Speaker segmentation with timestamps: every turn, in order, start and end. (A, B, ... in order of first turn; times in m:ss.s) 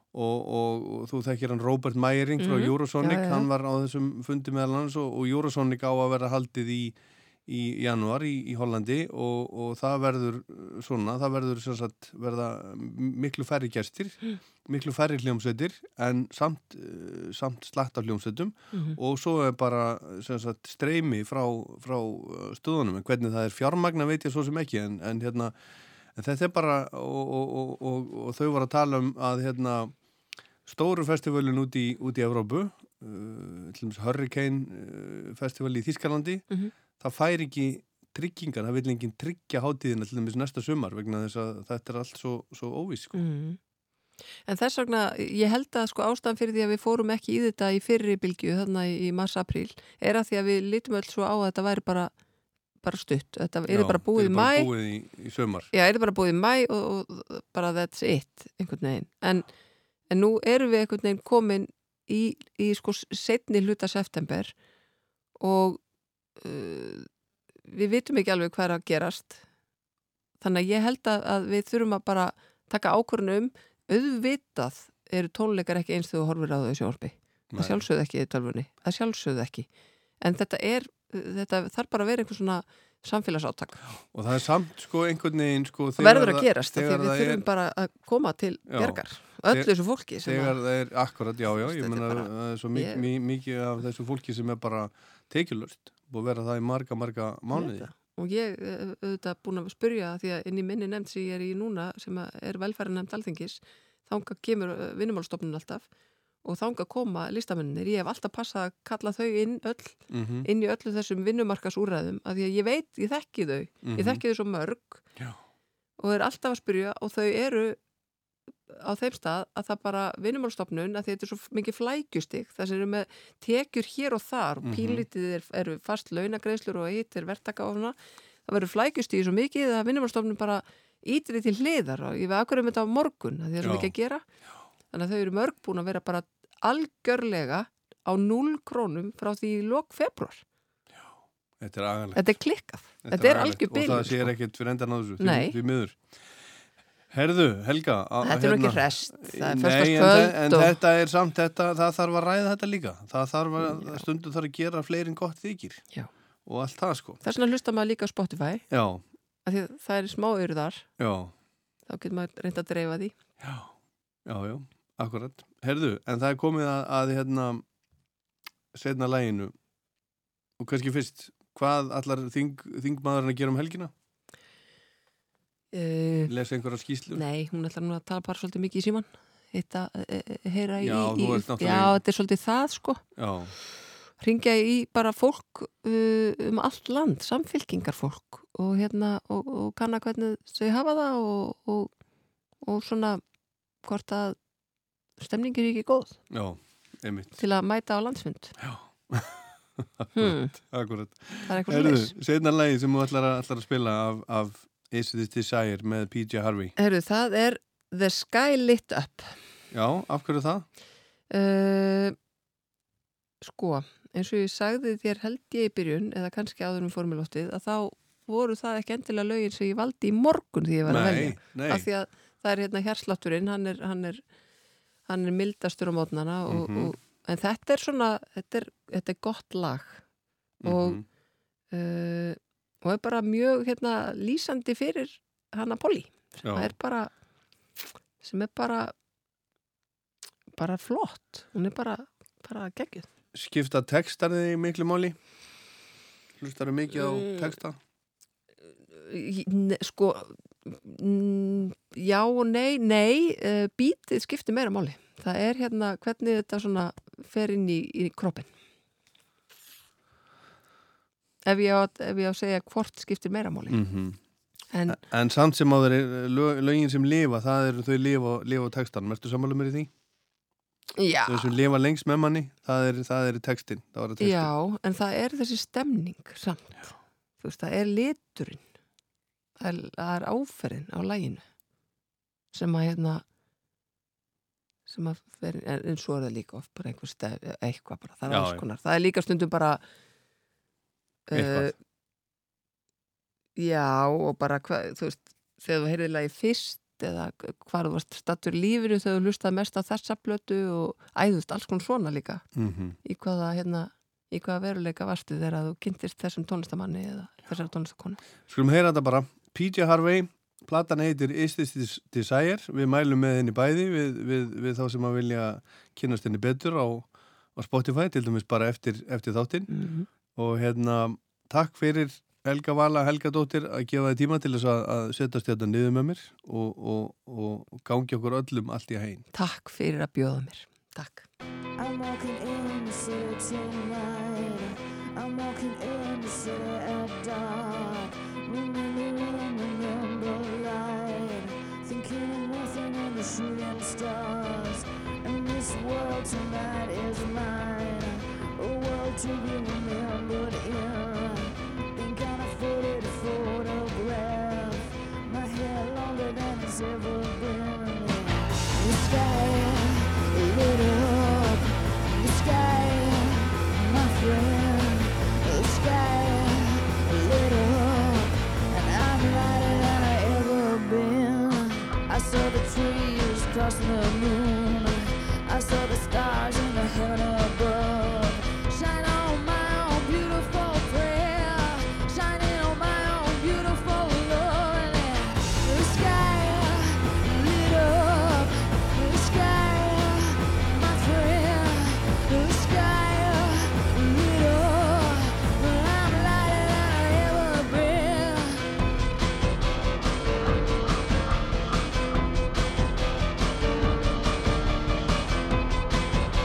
0:00.1-0:25.5 A
0:02.4-0:03.5 B
0:18.7-0:19.0 B
0:26.1-0:29.9 A
0:30.6-0:36.4 A
0:37.0-0:43.2 A
0:43.1-0:43.6 B
0:44.5-0:52.1 B
0:52.8-0:54.7 B
0:53.7-0:55.7 A
0:55.7-0:59.5 B
1:00.1-1:04.5 B
1:05.4-1:05.8 B
1:06.4-1:07.1 B
1:07.7-1:09.4 B
1:10.4-1:19.7 B
1:17.5-1:17.8 A
1:20.2-1:23.8 B
1:24.1-1:27.4 A
1:26.0-1:30.6 B
1:28.7-1:29.7 A
1:30.2-1:37.9 A
1:31.6-1:33.0 B
1:37.5-1:45.9 B
1:46.4-1:55.0 B
1:50.1-1:50.5 A
1:53.8-1:54.2 A
1:56.0-1:57.8 B
1:58.7-2:14.2 B
2:04.6-2:05.0 A
2:13.6-2:13.9 A
2:14.9-2:20.4 B
2:21.6-2:22.3 A
2:22.1-2:24.3 B
2:23.0-2:26.0 A
2:25.2-2:25.6 B
2:27.1-2:35.8 A
2:28.2-2:30.7 B
2:33.7-2:34.0 B
2:36.4-2:37.2 A
2:37.2-2:38.6 B
2:38.7-2:39.0 A
2:39.4-2:40.8 B
2:41.0-2:41.3 A
2:41.9-2:43.1 B
2:43.4-2:43.7 A
2:44.2-2:47.6 A
2:48.7-2:49.5 A
2:50.6-2:53.9 A
2:55.7-2:56.3 B
2:56.3-2:57.2 A
2:57.1-3:03.0 B
3:00.8-3:02.0 A
3:03.2-3:03.5 A
3:04.2-3:11.9 B
3:12.6-3:13.2 B
3:13.8-3:14.4 B
3:15.2-3:16.2 B
3:16.3-3:17.3 A
3:17.4-3:18.6 B
3:18.6-3:26.7 A
3:20.1-3:20.5 B
3:21.4-3:22.1 B
3:26.8-3:29.4 B
3:29.7-3:30.6 A
3:31.3-3:32.1 B
3:33.4-3:44.2 B
3:40.9-3:41.9 A
3:45.1-3:50.0 B
3:46.5-3:46.9 A
3:50.6-3:51.0 A
3:50.6-3:51.0 B
3:51.7-3:57.1 B
3:56.4-3:56.7 A
3:58.2-3:58.9 B
4:00.6-4:03.1 B
4:03.3-4:05.2 A
4:06.4-4:07.8 A
4:07.0-4:07.4 B
4:08.9-4:18.5 B
4:21.4-4:23.8 B
4:23.7-4:24.2 A
4:24.7-4:25.0 B
4:24.9-4:29.9 A
4:31.0-4:31.5 B
4:31.3-4:34.5 A
4:34.2-4:38.6 B
4:39.6-4:41.4 B
4:42.5-4:43.2 B
4:44.8-4:49.8 B
4:48.3-4:48.6 A
4:51.3-4:51.7 B
4:51.3-4:51.7 A
4:53.6-5:02.4 B
5:02.5-5:03.0 A
5:03.0-5:08.2 B
5:08.5-5:19.7 A
5:19.7-5:20.1 B
5:20.3-5:29.2 A
5:29.3-5:31.3 B
5:31.8-6:38.7 C